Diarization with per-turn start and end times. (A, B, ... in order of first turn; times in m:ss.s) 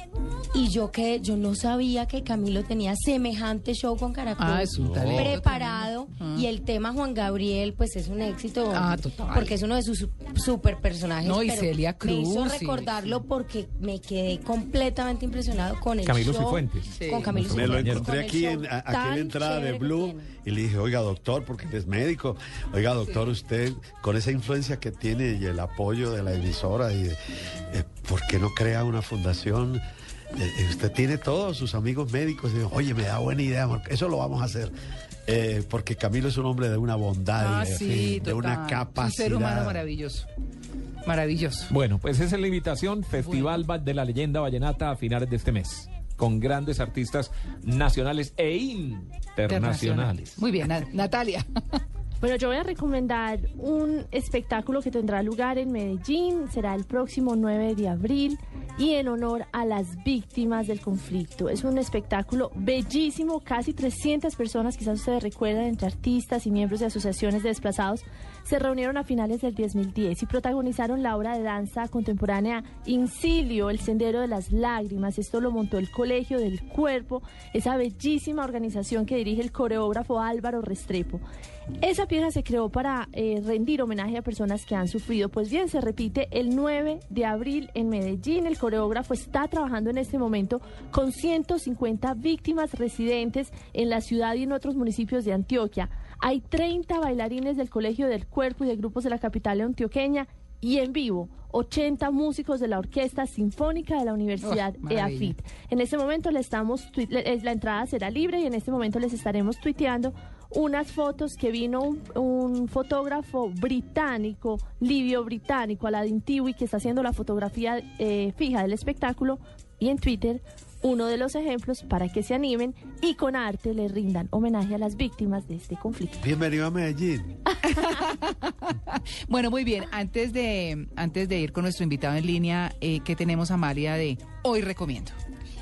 0:00.5-0:20.3 A
0:04.4-0:06.5 B
0:04.8-0:05.4 C
0:08.7-0:09.6 B
0:11.2-0:13.0 B
0:16.0-0:18.1 D
0:16.9-0:17.3 B
0:17.5-0:27.2 C
0:27.7-0:29.8 C
0:30.3-0:34.7 C
0:35.2-0:39.8 C
0:37.4-0:40.2 B
0:41.0-0:41.7 B
0:41.7-0:50.4 D
0:43.2-0:43.6 B
0:49.5-0:51.8 B
0:52.2-1:21.2 E
1:21.8-2:06.2 E
1:44.4-1:45.4 B
2:06.2-2:07.4 C
2:07.6-2:15.2 B